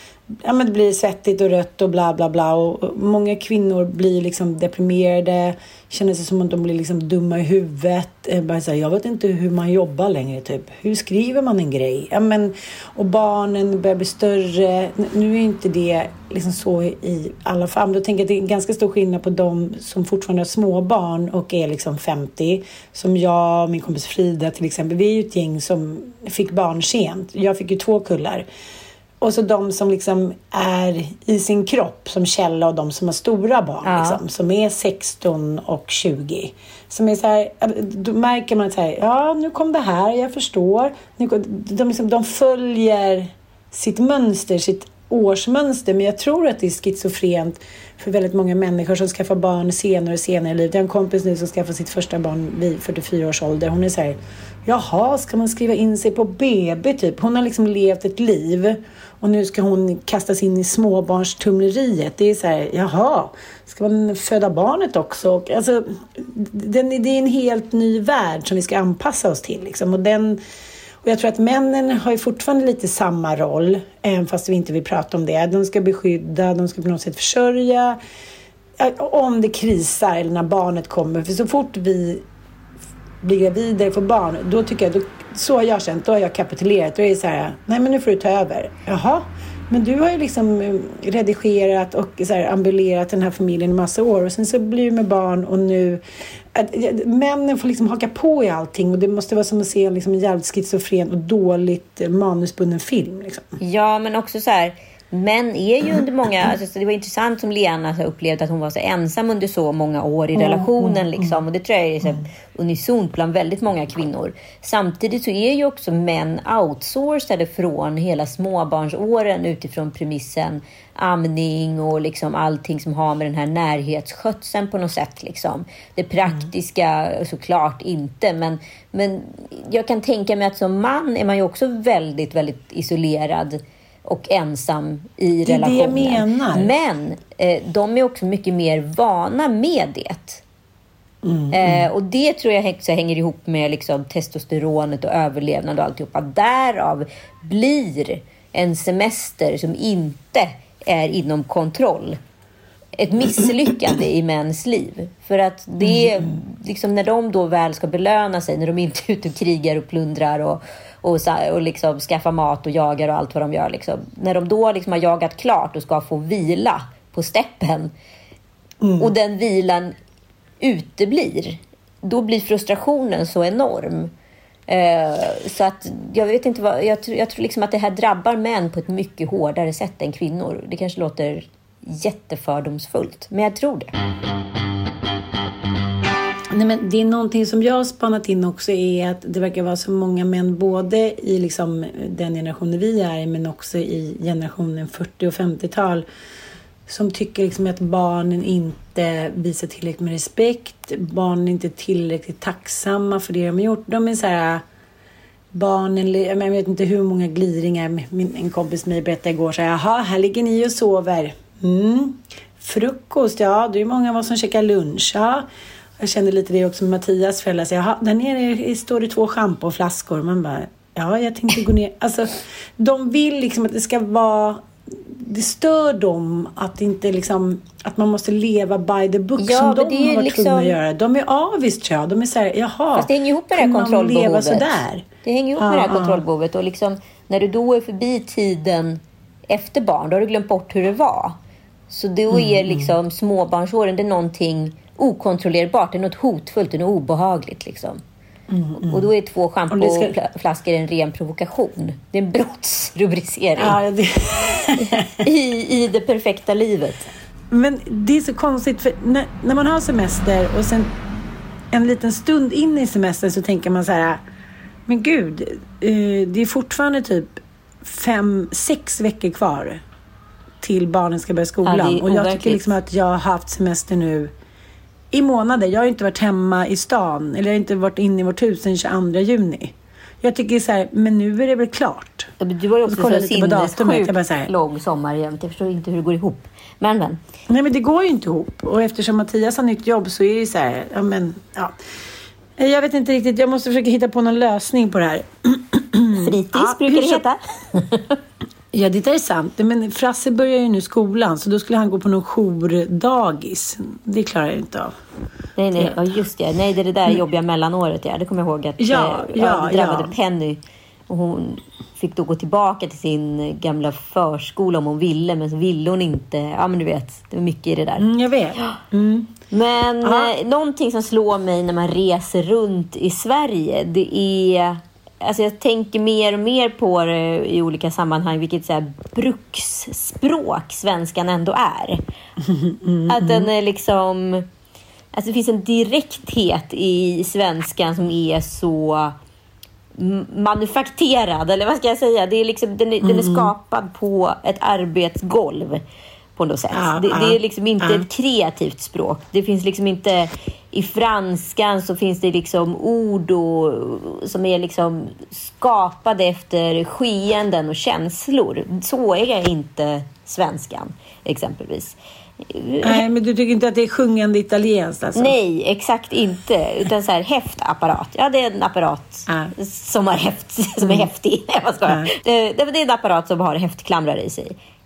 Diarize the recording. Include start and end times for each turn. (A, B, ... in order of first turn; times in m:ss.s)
0:00.4-0:28.4 A
0:29.2-1:10.4 A
0:33.8-0:34.2 B
1:11.0-1:18.0 A
1:18.8-1:22.2 A
1:23.2-1:43.5 A
1:43.6-2:20.4 B
1:50.4-1:51.4 A
2:15.4-2:16.8 A
2:21.2-2:21.9 A
2:21.5-2:32.2 B
2:33.0-2:47.9 B
2:35.8-2:36.3 A
2:48.8-2:49.1 A
2:49.0-2:49.9 B
2:50.6-2:54.1 B
2:54.7-3:03.9 B
3:06.5-3:16.0 A
3:16.9-3:24.6 A
3:25.5-3:35.5 A
3:36.0-3:56.2 A
3:49.4-3:50.8 B
3:52.9-4:01.4 B
4:01.9-4:08.0 B
4:02.3-4:02.9 A
4:08.5-4:09.1 A
4:08.8-4:13.8 B
4:09.7-4:10.2 A
4:13.6-4:15.2 A
4:14.8-4:17.1 B
4:17.5-4:20.9 A
4:21.7-4:24.2 A
4:24.9-4:29.8 A
4:30.6-4:34.3 A
4:31.6-4:32.7 B
4:35.1-4:42.3 A
4:42.4-4:47.2 B
4:42.9-4:44.5 A
4:47.5-4:51.8 A
4:52.6-4:57.2 A
4:56.1-4:58.2 B
4:58.7-5:04.9 A
5:05.6-5:18.1 B
5:08.8-5:10.1 A
5:18.0-5:19.3 A
5:19.5-5:32.0 B
5:20.0-5:20.3 A
5:32.4-5:33.5 A
5:33.1-5:34.4 B
5:35.1-5:39.1 B
5:40.0-5:45.8 B
5:43.0-5:43.5 A
5:46.4-6:03.0 B
5:46.7-5:48.1 A
6:02.8-6:05.4 A
6:05.1-6:14.6 B
6:09.3-6:09.5 A
6:10.8-6:11.1 A